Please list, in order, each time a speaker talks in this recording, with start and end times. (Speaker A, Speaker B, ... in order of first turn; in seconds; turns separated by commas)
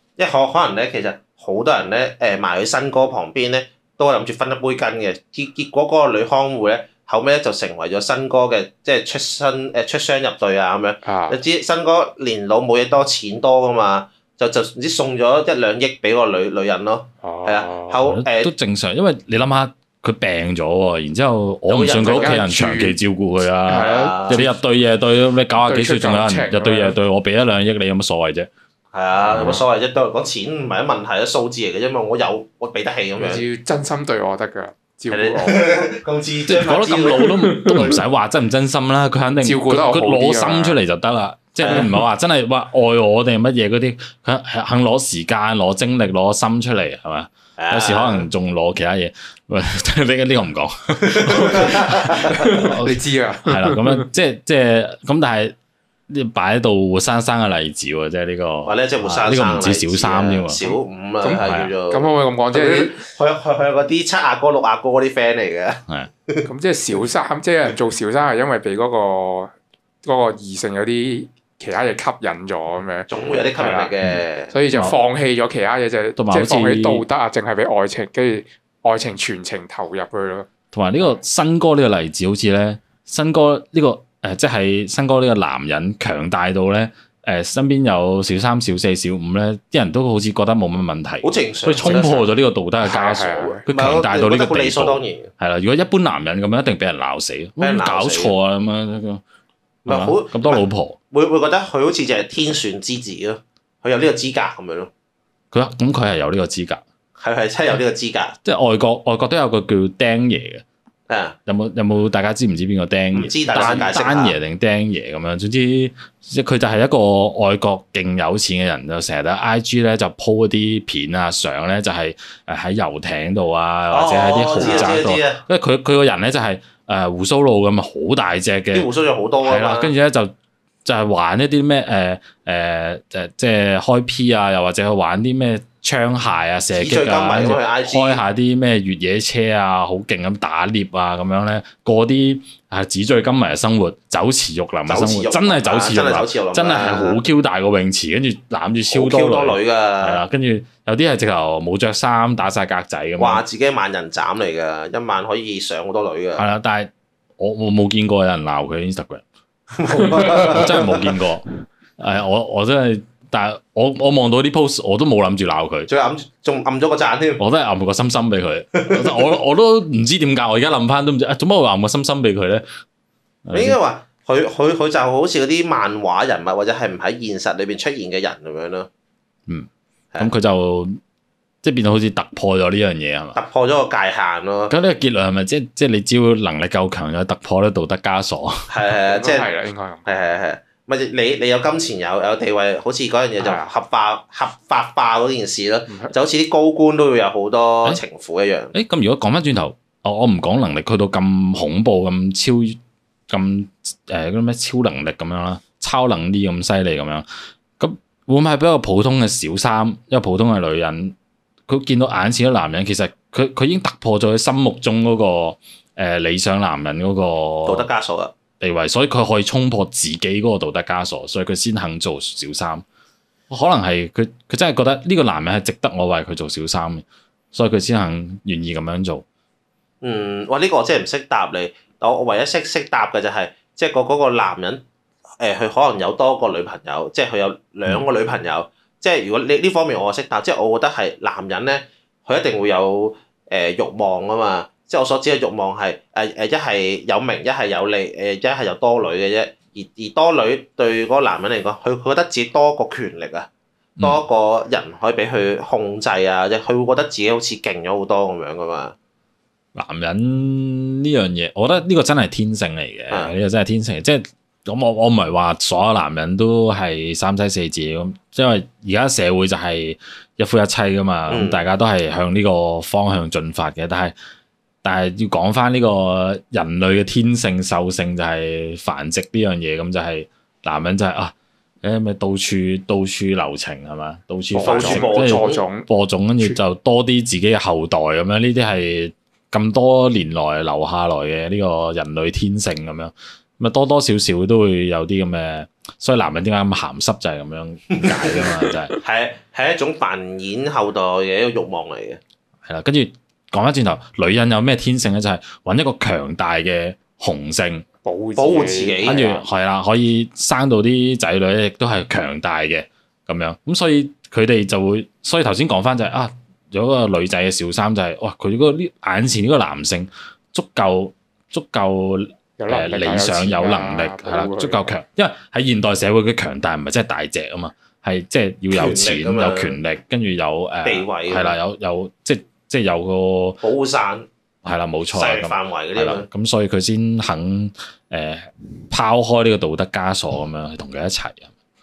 Speaker A: 0.2-18.5, Speaker B: 11.0-11.4, Speaker B: 17.2-18.0, Speaker C: 18.0-28.5, Speaker A: 21.7-22.4, Speaker B: 22.0-23.0, Speaker B: 23.6-24.6, Speaker A: 23.8-24.4, Speaker B: 25.6-27.0, Speaker A: 28.9-33.4, Speaker C: 29.2-29.6, Speaker B: 33.2-35.9, Speaker A: 35.1-37.3, Speaker C: 36.5-55.5, Speaker B: 37.1-38.0, Speaker B: 39.4-40.8, Speaker A: 41.6-41.9, Speaker A: 47.6-48.3, Speaker B: 51.3-54.0, Speaker A: 51.3-52.2, Speaker C: 56.1-60.6, Speaker A: 58.6-66.5, Speaker B: 60.6-63.1, Speaker C: 61.5-61.7, Speaker B: 66.5-73.9, Speaker A: 73.1-74.5, Speaker B: 74.5-80.5, Speaker C: 76.2-77.0, Speaker C: 80.7-99.2, Speaker A: 91.2-92.2, Speaker B: 91.8-92.2, Speaker B: 92.8-93.6, Speaker A: 93.7-95.3, Speaker A: 97.6-98.3, Speaker A: 99.8-104.9, Speaker C: 99.9-101.0, Speaker C: 105.5-106.8, Speaker A: 107.2-108.3, Speaker C: 108.4-110.6, Speaker A: 111.1-111.4, Speaker C: 111.5-128.9, Speaker A: 113.1-114.4, Speaker A: 123.9-125.4, Speaker A: 128.7-129.9, Speaker C: 129.4-130.3, Speaker C: 130.8-153.4, Speaker A: 136.7-138.2, Speaker A: 144.8-147.2, Speaker A: 148.9-150.2, Speaker A: 153.2-156.4, Speaker C: 156.4-159.2, Speaker A: 159.8-161.0, Speaker C: 160.1-161.4, Speaker C: 162.0-165.9, Speaker A: 165.9-167.4, Speaker C: 167.4-172.7, Speaker A: 168.8-169.2, Speaker C: 173.4-173.8, Speaker A: 173.5-178.9, Speaker C: 179.5-181.0, Speaker C: 181.6-183.4, Speaker A: 183.3-184.7, Speaker C: 184.7-188.7, Speaker A: 188.7-189.5, Speaker B: 189.1-190.2, Speaker A: 190.1-198.7, Speaker B: 193.4-193.7, Speaker C: 198.7-202.8, Speaker C: 203.3-207.2, Speaker C: 207.8-211.1, Speaker C: 211.7-217.9, Speaker A: 217.7-218.3, Speaker C: 218.6-222.8, Speaker C: 223.5-229.2, Speaker A: 230.0-234.8, Speaker A: 235.4-258.9, Speaker C: 259.7-274.1, Speaker A: 271.3-271.7, Speaker C: 274.8-298.9, Speaker B: 284.5-285.9, Speaker A: 284.6-285.6, Speaker A: 297.9-302.2, Speaker C: 302.6-307.8, Speaker B: 308.0-309.4, Speaker A: 308.4-309.2, Speaker C: 309.0-333.6, Speaker B: 322.6-324.9, Speaker A: 328.7-329.8, Speaker A: 330.8-331.6, Speaker A: 333.6-334.3, Speaker C: 334.6-341.5, Speaker A: 335.1-336.3